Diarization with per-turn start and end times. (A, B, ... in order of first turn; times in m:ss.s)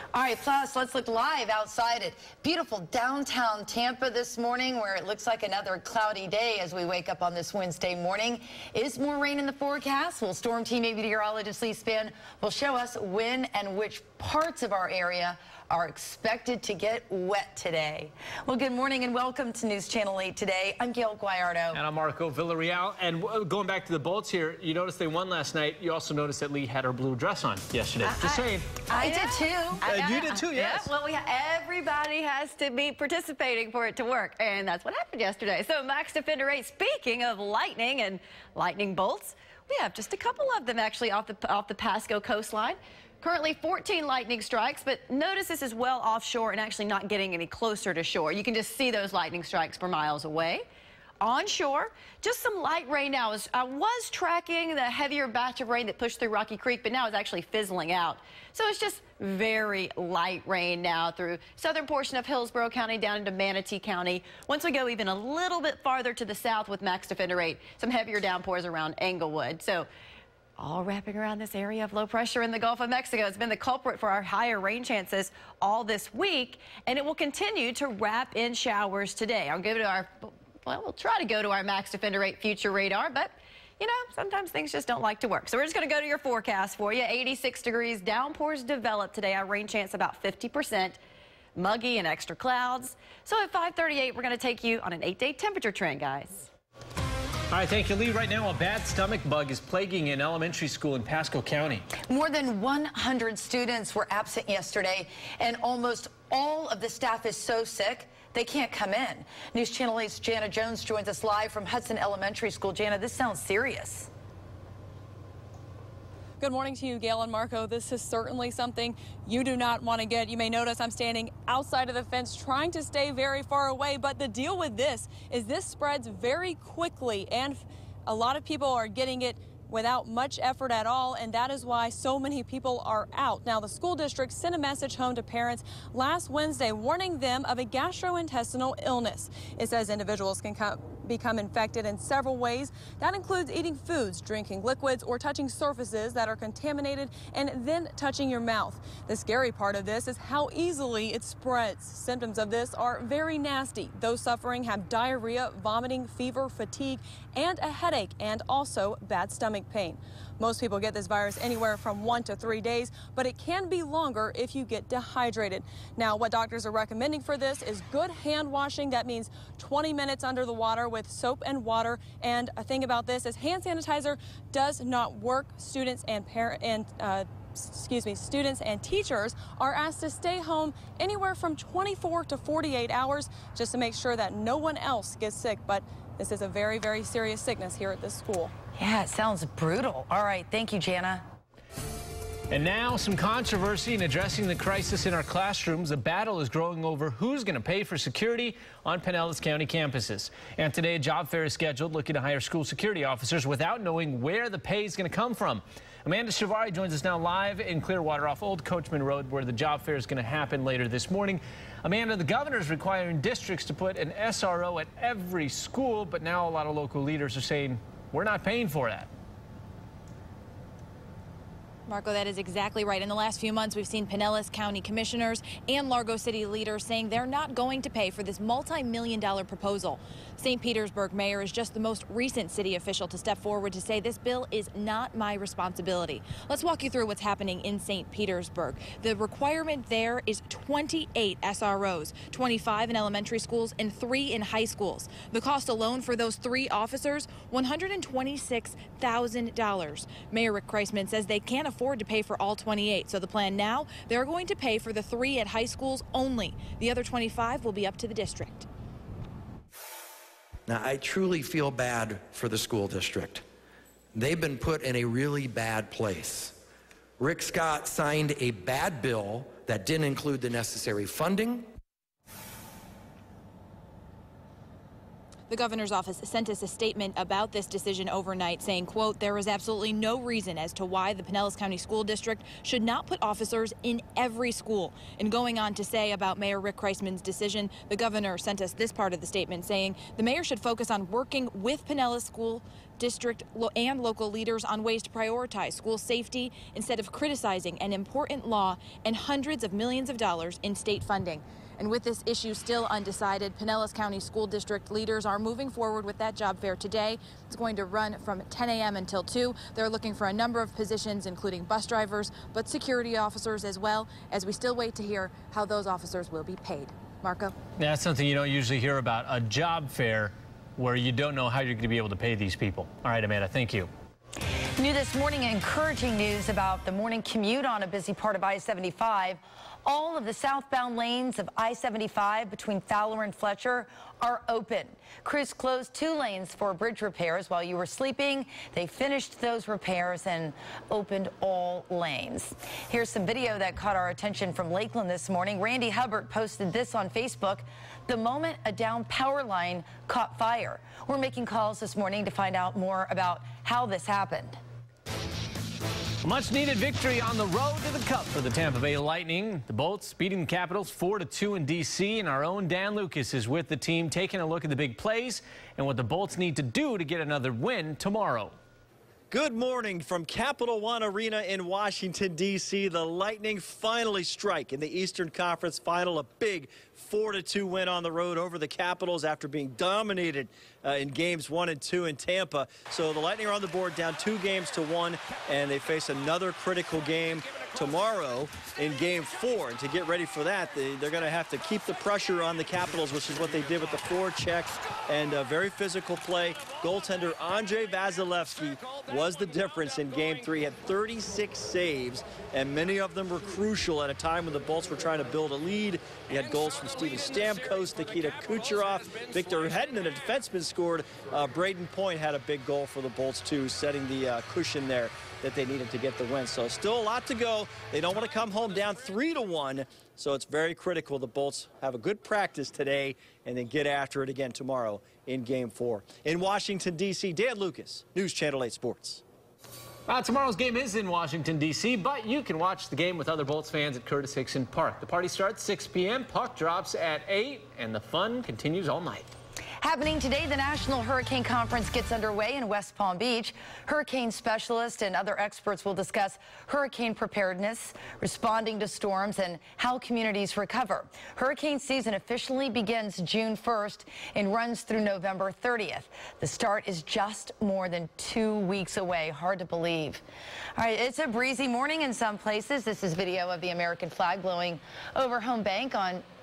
0:00.1-0:21.8 A
0:21.7-0:28.8 B
0:28.0-0:29.8 A
0:29.0-0:50.6 C
0:29.8-0:30.9 B
0:51.2-1:09.9 C
1:10.6-1:31.0 C
1:31.6-1:36.5 C
1:37.5-1:41.8 B
1:42.1-1:54.1 A
1:56.4-3:08.5 D
3:08.8-3:11.2 A
3:12.5-3:39.1 B
3:41.9-4:18.7 E
4:20.7-4:23.4 F
4:24.1-4:26.5 F
4:27.2-4:31.7 F
4:35.5-5:17.5 E
5:17.8-5:23.9 B
5:24.8-5:54.6 A
5:56.2-6:08.5 B
6:09.3-7:09.2 G
7:10.1-7:19.3 B
7:19.8-7:40.2 A
7:40.8-7:46.2 A